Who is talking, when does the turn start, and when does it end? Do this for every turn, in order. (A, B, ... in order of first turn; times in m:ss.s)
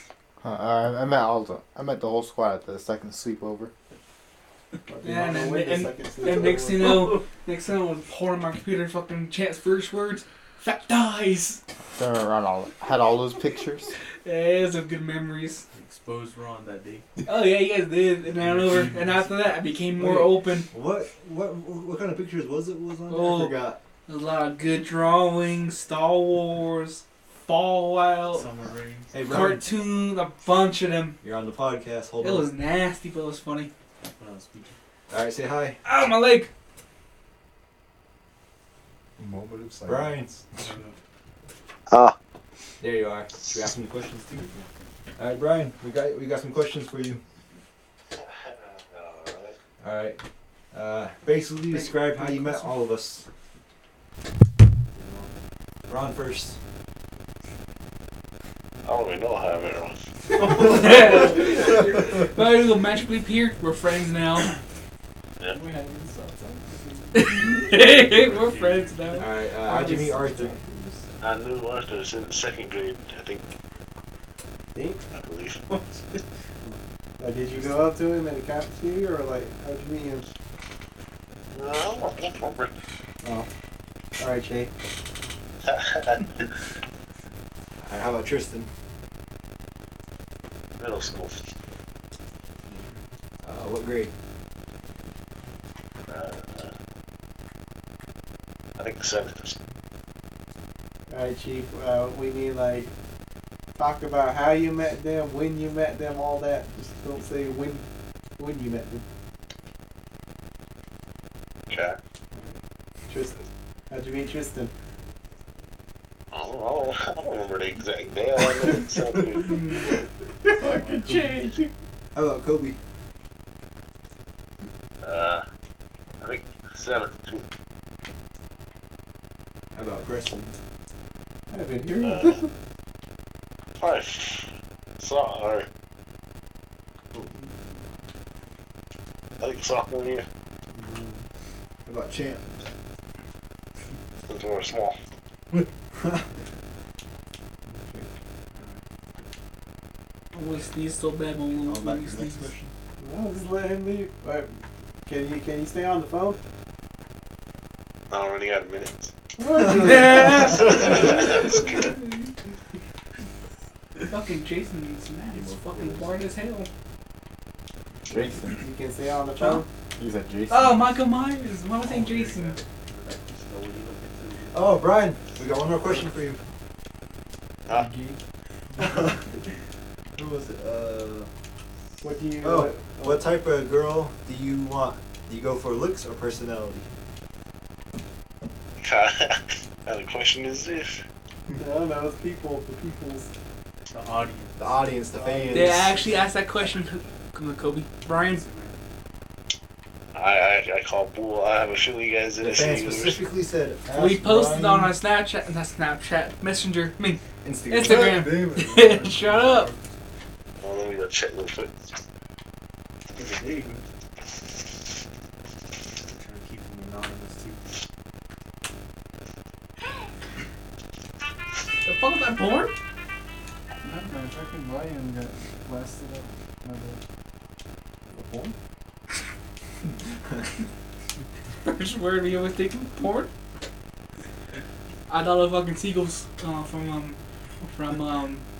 0:00.4-0:03.7 A
0:04.9-0:07.0 B
0:05.0-0:11.6 C
0:06.8-0:07.2 D
0:11.9-0:13.9 A
0:14.2-0:15.6 C
0:15.7-0:17.0 D
0:17.2-0:20.7 C
0:18.3-0:19.8 D
0:19.9-0:23.8 E
0:23.1-0:28.5 C
0:28.3-0:29.1 D
0:29.1-0:29.8 E
0:29.2-0:31.2 C
0:31.2-0:32.5 E
0:32.2-0:33.7 C
0:34.0-0:34.7 D
0:35.1-0:35.8 E
0:35.8-0:36.5 C
0:39.2-0:40.2 F
0:39.9-0:40.4 E
0:40.5-0:41.0 D
0:41.9-0:42.1 G
0:42.8-0:44.6 E
0:45.2-0:47.2 E
0:48.1-0:49.6 G
0:49.8-0:50.2 E
0:50.7-0:53.2 E
0:54.9-0:55.4 D
0:55.9-0:56.6 E
0:58.8-1:00.0 G
1:00.4-1:04.5 C
1:00.6-1:00.9 D
1:05.5-1:07.7 H
1:07.1-1:10.1 C
1:07.7-1:09.2 D
1:09.2-1:10.6 E
1:10.2-1:11.0 B
1:11.2-1:13.5 G
1:14.7-1:15.0 B
1:15.1-1:15.7 G
1:15.7-1:16.2 D
1:16.6-1:20.3 B
1:17.5-1:17.9 D
1:21.5-1:22.7 G
1:23.2-1:23.5 B
1:24.2-1:24.7 B
1:25.6-1:26.4 G
1:27.8-1:28.7 E
1:30.8-1:31.5 G
1:33.4-1:34.1 E
1:36.1-1:36.7 G
1:38.8-1:39.6 G
1:41.1-1:42.9 B
1:43.7-1:47.8 B
1:48.4-1:49.0 B
1:51.7-1:52.0 G
1:53.1-1:53.4 B
1:53.9-1:54.7 B
1:56.3-1:59.6 G
1:59.4-1:59.9 C
2:00.4-2:01.7 B
2:00.6-2:01.4 D
2:02.1-2:02.8 E
2:05.0-2:05.4 G
2:06.2-2:07.4 G
2:09.7-2:10.5 E
2:11.5-2:12.5 B
2:12.0-2:12.4 G
2:13.8-2:15.7 G
2:19.4-2:20.2 G
2:20.7-2:21.2 B
2:21.9-2:22.5 E
2:24.3-2:25.0 G
2:27.6-2:28.1 B
2:28.5-2:28.8 D
2:30.3-2:32.5 C
2:31.6-2:32.7 E
2:33.0-2:34.5 B
2:35.0-2:36.4 B
2:38.1-2:39.1 G
2:39.4-2:40.9 B
2:39.6-2:42.3 C
2:40.7-2:41.7 G
2:44.1-2:46.7 C
2:45.3-2:46.1 D
2:48.1-2:48.7 A
2:48.6-2:49.7 B
2:50.0-2:50.9 A
2:50.5-2:52.6 C
2:51.8-2:55.0 D
2:54.5-2:56.4 E
2:57.7-2:58.2 H
2:58.8-2:59.3 E
3:00.2-3:01.3 E
3:02.0-3:03.3 B
3:02.4-3:06.9 E
3:08.8-3:11.0 G
3:11.6-3:13.3 B
3:13.9-3:14.8 D
3:14.6-3:16.0 E
3:15.1-3:15.8 B
3:15.5-3:18.4 C
3:18.0-3:18.8 D
3:20.1-3:23.2 G
3:22.4-3:25.0 E
3:23.9-3:29.7 C
3:27.4-3:28.2 E
3:27.8-3:29.4 F
3:28.8-3:29.8 D
3:30.6-3:31.9 G
3:33.1-3:33.8 D
3:36.0-3:37.9 D
3:41.8-3:42.7 C
3:43.8-3:47.0 H
3:48.1-3:48.5 B
3:51.6-3:53.3 C
3:55.1-3:58.4 C